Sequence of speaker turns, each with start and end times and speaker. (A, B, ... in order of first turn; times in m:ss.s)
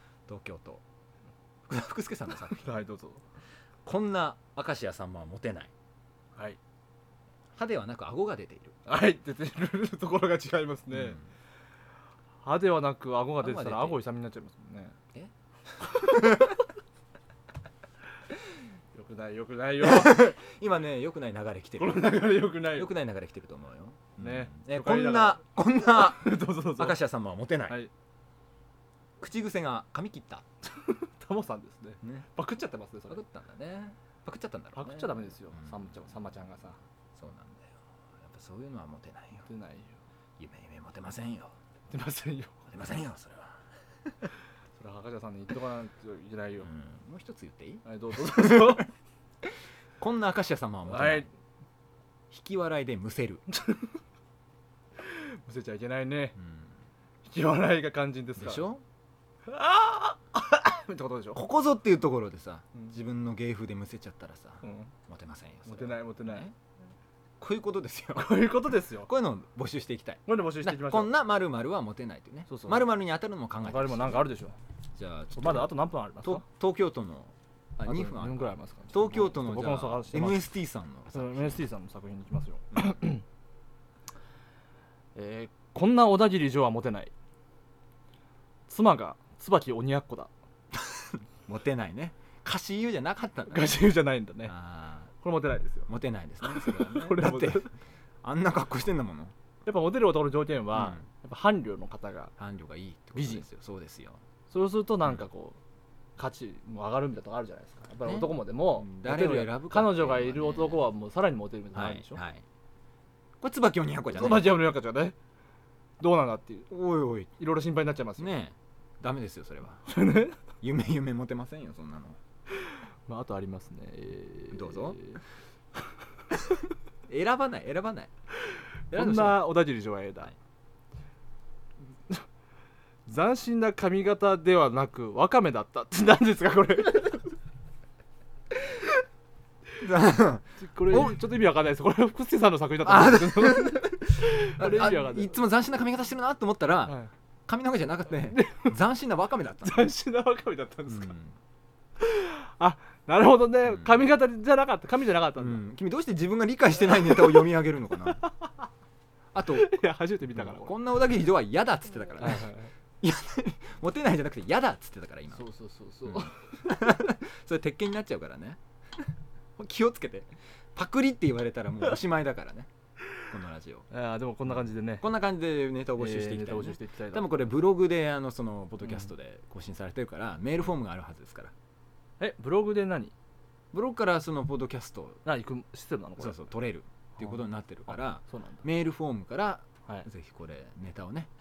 0:00.3-0:00.8 A
0:01.7-0:02.7 A
0:02.4-0:03.2 B
0:03.8-0:05.7 A
0:07.6-0:08.8 A
0:08.9-0:11.2 B
0:10.9-0:11.2 A
0:12.4-0:15.0 B
0:13.4-0:14.0 A
0:15.9-0:16.3 B
0:16.0-0:16.3 A
0:18.9-0:20.3 B
0:19.8-0:27.8 A
0:21.8-0:22.9 B
0:24.2-0:27.0 B
0:29.2-0:30.4 A
0:30.6-0:33.2 B
0:33.1-0:36.0 A
0:34.8-0:36.8 B
0:37.1-0:39.5 A
0:39.5-0:40.0 B
0:40.4-0:41.6 A
0:41.9-0:42.6 B
0:42.7-0:43.6 A
0:44.8-0:46.7 B
0:46.6-0:48.8 A
0:47.8-0:48.9 B
0:50.0-0:51.3 A
0:50.9-0:51.3 B
0:52.3-0:53.4 A
0:53.5-0:53.9 B
0:55.0-0:56.4 B
0:56.4-0:56.7 A
0:57.2-0:58.6 B
0:58.4-0:58.8 A
0:59.5-1:01.4 B
1:01.3-1:06.5 A
1:04.6-1:04.9 B
1:05.6-1:06.5 B
1:07.4-1:08.5 A
1:08.1-1:09.1 B
1:09.0-1:14.3 A
1:10.3-1:11.2 B
1:12.5-1:12.9 B
1:13.6-1:14.6 B
1:15.0-1:21.6 A
1:15.4-1:16.4 B
1:17.8-1:20.5 B
1:21.1-1:23.2 B
1:25.1-1:27.1 B
1:28.7-1:30.3 B
1:31.5-1:33.8 A
1:33.5-1:34.6 B
1:34.5-1:35.1 A
1:35.2-1:35.9 B
1:35.9-1:37.7 A
1:36.4-1:37.7 B
1:38.2-1:39.3 A
1:39.6-1:42.3 B
1:40.7-1:41.0 A
1:42.4-1:44.2 A
1:43.1-1:43.5 B
1:44.5-1:45.6 B
1:46.2-1:52.2 B
1:48.1-1:50.9 A
1:51.7-1:52.4 A
1:53.4-1:54.6 A
1:54.1-1:55.1 B
1:56.0-1:56.7 B
1:56.7-1:57.3 A
1:57.4-1:58.4 B
1:58.2-1:59.8 A
1:59.9-2:00.4 B
2:00.6-2:02.2 A
2:02.5-2:05.2 B
2:04.5-2:05.0 A
2:07.1-2:08.1 A
2:08.5-2:10.3 B
2:08.9-2:09.6 A
2:13.1-2:17.3 B
2:19.8-2:21.2 A
2:20.6-2:25.4 B
2:22.8-2:29.9 A
2:28.3-2:28.7 B
2:29.6-2:31.2 B
2:30.9-2:31.4 A
2:32.0-2:35.6 B
2:33.7-2:34.0 A
2:35.4-2:38.3 A
2:37.0-2:37.3 B
2:38.2-2:38.7 B
2:39.3-2:39.8 A
2:39.5-2:40.7 B
2:40.4-2:45.4 A
2:42.2-2:42.7 B
2:45.3-2:46.8 B
2:46.0-2:52.7 A
2:53.3-2:53.9 A
2:53.9-2:55.1 B
2:55.0-3:01.5 A
2:56.0-2:57.3 B
3:02.2-3:03.1 B
3:03.7-3:05.2 A
3:05.2-3:06.5 B
3:06.2-3:11.3 A
3:07.2-3:08.6 B